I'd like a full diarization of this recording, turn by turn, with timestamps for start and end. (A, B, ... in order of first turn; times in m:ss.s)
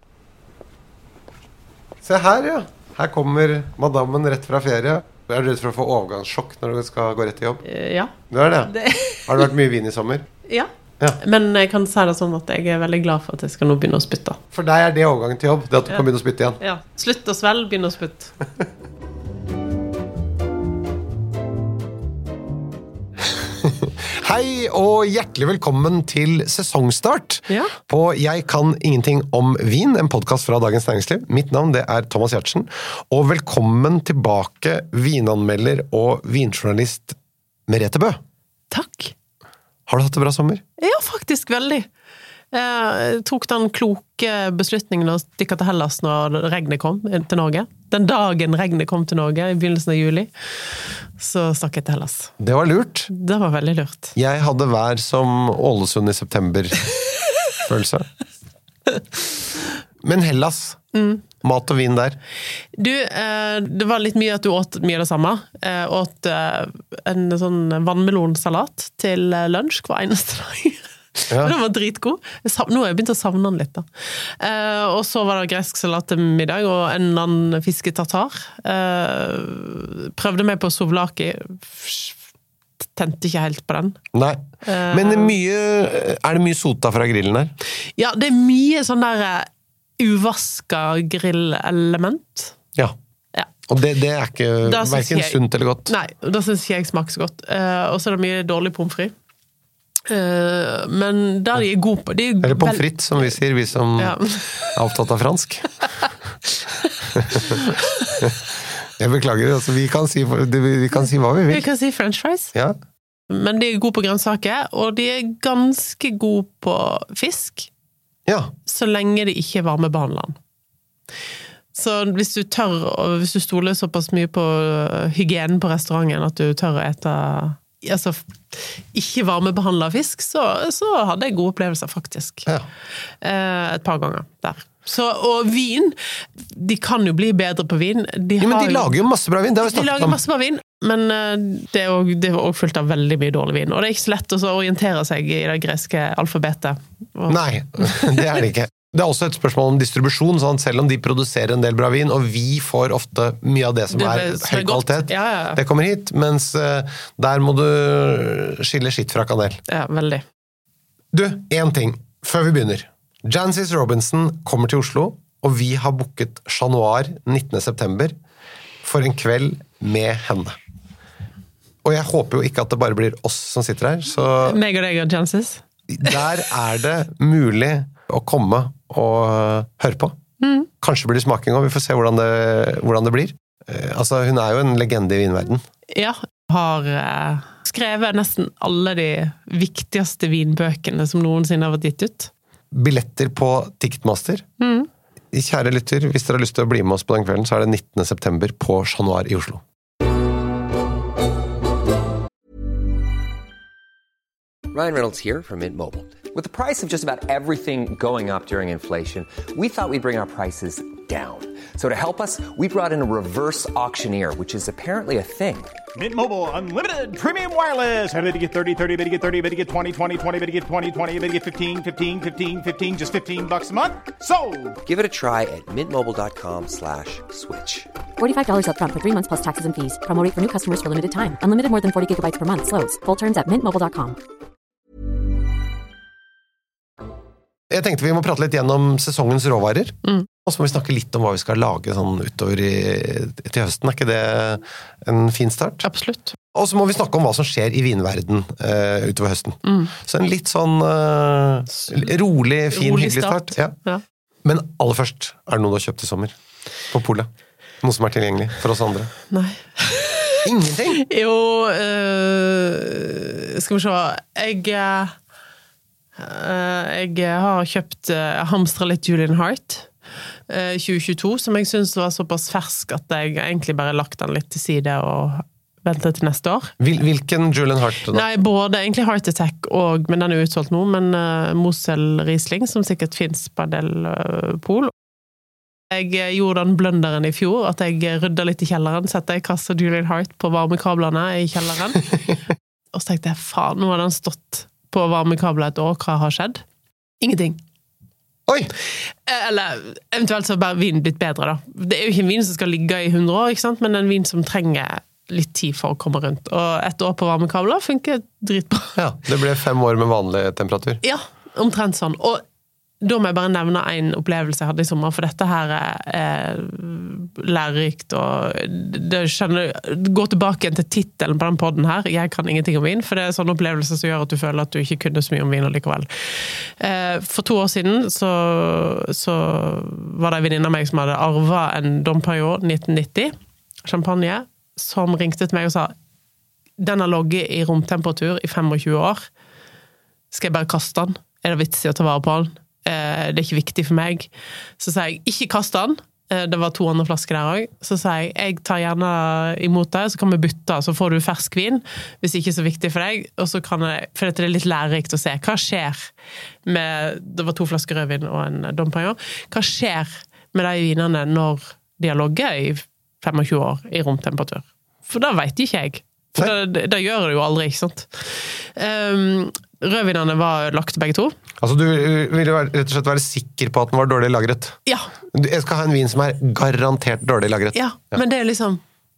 0:02.0-0:07.6 A
0:07.6-0:08.1 B
0:08.3-0:10.3 A
0:08.6-0:09.5 B
0:10.5-0:14.4 B
0:14.5-0:16.6 A
0:16.6-0:18.3 B
0:23.3-0:38.2 A
0:27.5-0:27.7 B
0:38.7-0:39.1 B
0:39.9-0:40.6 A
0:40.8-0:41.9 B
0:42.5-0:52.3 B
0:52.4-0:53.1 A
0:53.1-0:54.1 B
0:54.2-0:56.8 A
0:57.6-0:58.1 A
1:00.0-1:00.8 A
1:00.9-1:01.2 B
1:01.3-1:02.2 A
1:02.7-1:22.2 B
1:22.8-1:24.0 B
1:24.1-1:27.5 A
1:24.6-1:25.4 B
1:28.0-1:32.6 B
1:33.7-1:35.9 A
1:34.6-1:39.1 B
1:40.1-1:43.3 B
1:42.4-1:45.7 A
1:44.0-1:44.7 B
1:46.5-1:48.2 B
1:47.1-1:47.6 A
1:48.2-1:51.6 A
1:51.5-1:52.5 B
1:53.3-1:57.7 B
1:58.3-1:58.5 A
1:58.6-2:00.4 B
2:01.7-2:12.5 B
2:13.2-2:18.9 B
2:18.4-2:20.2 A
2:19.7-2:28.3 B
2:27.3-2:39.6 A
2:33.9-2:35.6 B
2:39.7-2:40.2 B
2:41.1-2:48.2 A
2:48.8-2:50.6 A
2:51.8-2:54.6 A
2:54.4-2:56.2 B
2:55.9-3:00.2 A
3:00.4-3:00.7 B
3:00.8-3:05.6 A
3:05.9-3:12.3 B
3:12.7-3:14.4 A
3:14.6-3:14.9 B
3:15.3-3:19.6 A
3:24.7-3:35.7 C
3:36.0-3:44.8 D
3:44.8-3:47.9 C
3:48.2-3:54.2 E
3:57.7-4:05.8 A
4:05.8-4:06.4 B
4:06.5-4:13.7 A
4:09.6-4:09.9 B
4:11.8-4:12.1 B
4:12.7-4:14.0 B
4:14.4-4:16.3 A
4:16.9-4:17.3 A
4:17.8-4:19.1 A
4:19.3-4:20.4 B
4:20.4-4:21.0 A
4:21.0-4:25.2 B
4:26.2-4:29.9 B
4:30.5-4:36.7 B
4:36.8-4:38.2 A
4:38.1-4:44.9 B
4:45.9-4:52.2 B
4:52.9-4:56.6 B
4:57.2-4:57.6 B
4:59.3-5:08.9 B
5:09.0-5:11.0 A
5:11.0-5:12.4 B
5:13.0-5:33.3 B
5:33.8-5:35.9 B
5:36.8-5:39.2 B
5:40.3-5:56.1 B
5:56.6-6:11.3 B
6:11.6-6:14.8 A
6:15.3-6:18.2 A
6:17.7-6:18.8 B